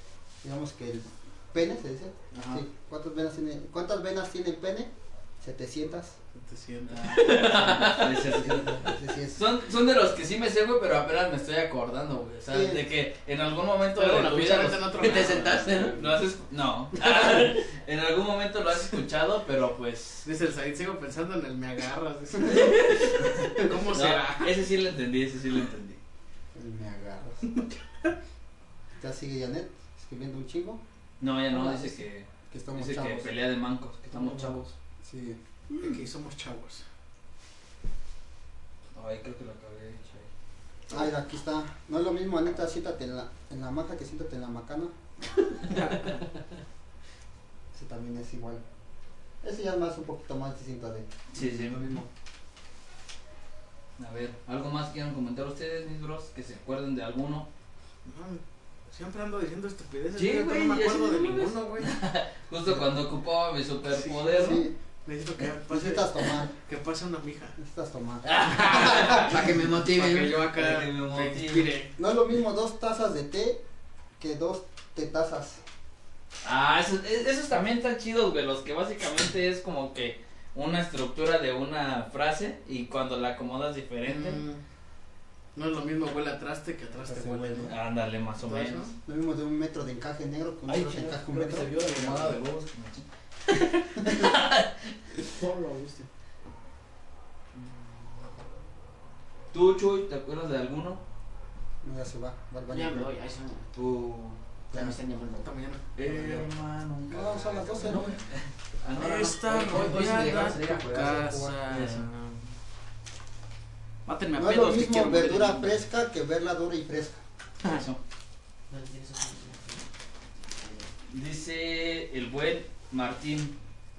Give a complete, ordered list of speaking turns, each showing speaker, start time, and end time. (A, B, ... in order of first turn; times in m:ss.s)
0:00.4-0:04.9 A
0:02.3-0:02.6 B
0:05.4-0:06.2 A
0:06.3-0:07.9 C
0:06.9-0:20.2 B
0:07.2-0:07.9 D
0:08.2-0:09.4 A
0:12.5-0:12.8 A
0:13.9-0:16.2 C
0:15.0-0:15.9 D
0:20.2-0:24.6 C
0:22.4-0:26.0 B
0:26.5-0:27.4 A
0:29.0-0:30.8 A
0:31.2-0:34.7 B
0:31.5-0:33.3 A
0:34.1-0:35.4 A
0:35.8-0:36.8 C
0:38.9-0:40.3 B
0:40.9-0:44.9 A
0:45.7-0:46.1 C
0:47.7-0:48.6 A
0:49.4-0:52.0 A
0:51.3-0:52.0 B
0:54.0-0:57.5 B
0:58.0-1:01.9 C
1:00.2-1:04.6 B
1:03.9-1:07.6 C
1:04.4-1:04.7 A
1:05.7-1:06.5 A
1:07.6-1:09.1 A
1:08.2-1:09.4 B
1:08.4-1:11.9 C
1:08.8-1:10.5 D
1:10.0-1:11.7 B
1:12.0-1:13.6 A
1:14.2-1:15.6 A
1:16.4-1:24.4 B
1:24.0-1:24.6 C
1:25.5-1:27.7 C
1:27.0-1:27.7 A
1:27.7-1:28.9 B
1:28.4-1:28.9 C
1:29.0-1:32.1 A
1:30.7-1:34.9 B
1:35.3-1:36.1 D
1:39.5-1:41.0 B
1:41.8-1:43.1 A
1:42.7-1:43.7 D
1:43.7-1:44.4 B
1:44.7-1:45.5 D
1:45.4-1:45.9 C
1:46.0-1:50.0 B
1:46.2-1:46.4 A
1:47.1-1:48.1 A
1:47.8-1:48.1 D
1:49.0-1:52.5 C
1:49.4-1:51.1 D
1:49.7-1:51.6 A
1:51.7-1:52.0 B
1:54.0-1:55.8 C
1:54.3-1:57.2 A
1:57.6-1:58.0 B
1:58.7-1:59.8 D
2:00.5-2:00.9 D
2:01.1-2:03.5 B